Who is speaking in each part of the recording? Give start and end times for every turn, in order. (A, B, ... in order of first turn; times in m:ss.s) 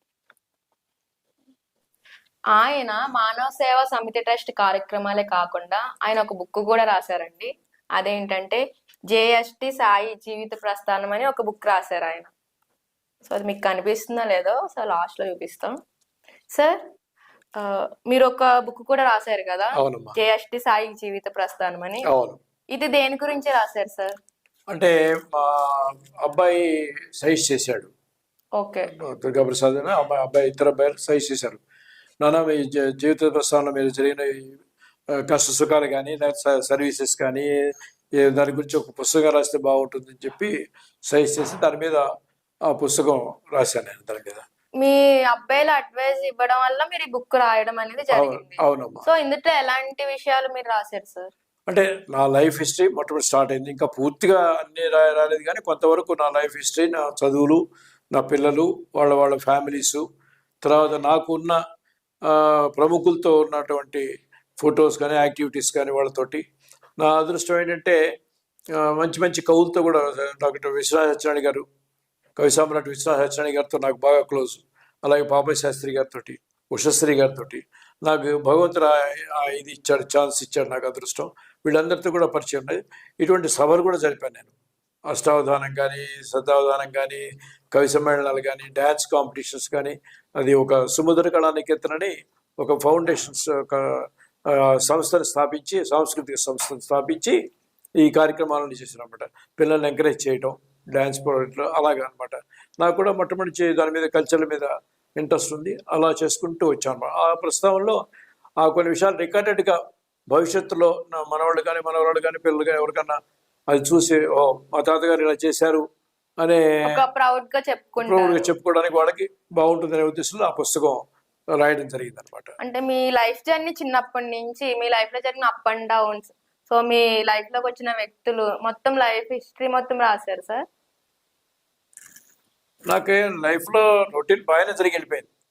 0:02.6-0:12.3 A
0:13.3-0:15.8 A
0:16.5-0:16.8 A
0:17.6-0:22.0 A
0:19.8-0:20.2 B
0:22.1-0:22.4 B
0:22.7-0:24.2 A
0:24.7-0:27.9 B
0:28.6-0:28.9 A
0:29.0-0:31.6 B
0:32.2-0:34.6 B
0:35.3-0:37.5 B
0:38.2-0:40.5 B
0:41.1-0:42.0 B
0:42.7-0:44.4 B
0:44.8-0:51.3 A
0:48.1-0:49.0 B
0:51.7-0:57.6 B
0:58.1-1:00.0 B
1:00.6-1:01.6 B
1:02.2-1:04.1 B
1:04.6-1:06.4 B
1:07.0-1:08.0 B
1:08.8-1:11.6 B
1:12.4-1:24.5 B
1:25.1-1:37.4 B
1:38.0-1:48.0 B
1:48.6-1:49.8 B
1:50.3-1:53.2 B
1:53.7-1:55.8 B
1:56.4-1:56.8 B
1:56.8-1:58.5 A
1:58.0-2:01.0 B
2:01.5-2:02.5 B
2:02.6-2:10.6 A
2:12.9-2:15.3 B